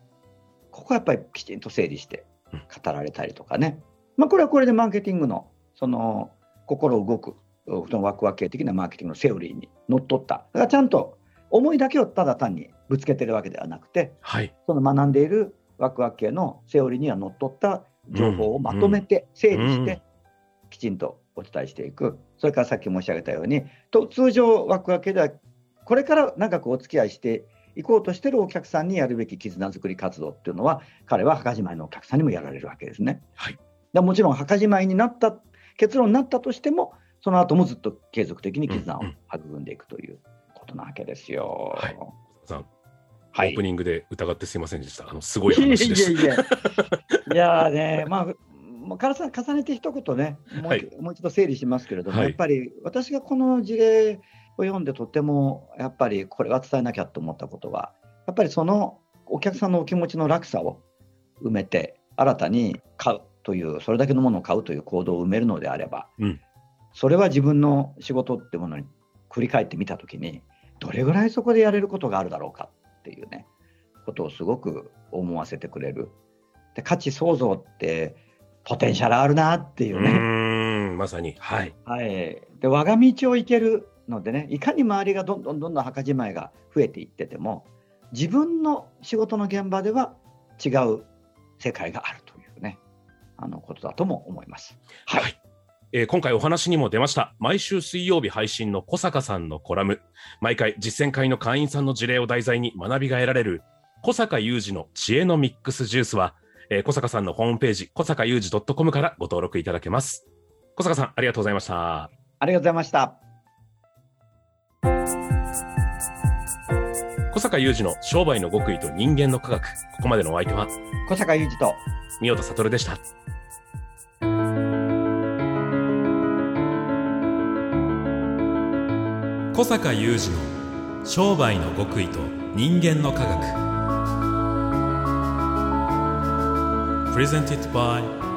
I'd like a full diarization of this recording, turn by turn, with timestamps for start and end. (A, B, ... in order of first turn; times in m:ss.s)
0:00.7-0:20.0 A
0:14.2-0:14.5 B
0:18.1-0:20.0 B
0:20.7-0:33.2 A
0:33.9-0:42.1 A
0:38.7-0:39.1 B
0:41.8-0:42.7 B
0:43.3-0:43.6 A
0:43.4-0:47.1 B
0:45.5-1:00.8 A
0:50.6-0:50.8 B
0:52.1-0:52.4 B
1:01.4-1:06.1 A
1:06.9-1:13.5 A
1:14.0-1:16.1 A
1:16.7-1:20.3 A
1:19.9-1:21.7 B
1:21.8-1:31.1 A
1:31.6-1:32.8 A
1:33.4-1:35.3 A
1:35.9-1:52.1 B
1:52.4-1:53.2 A
1:57.3-2:00.7 B
2:01.0-2:01.8 A
2:02.2-2:03.0 B
2:09.5-2:13.6 C
2:17.1-2:18.1 C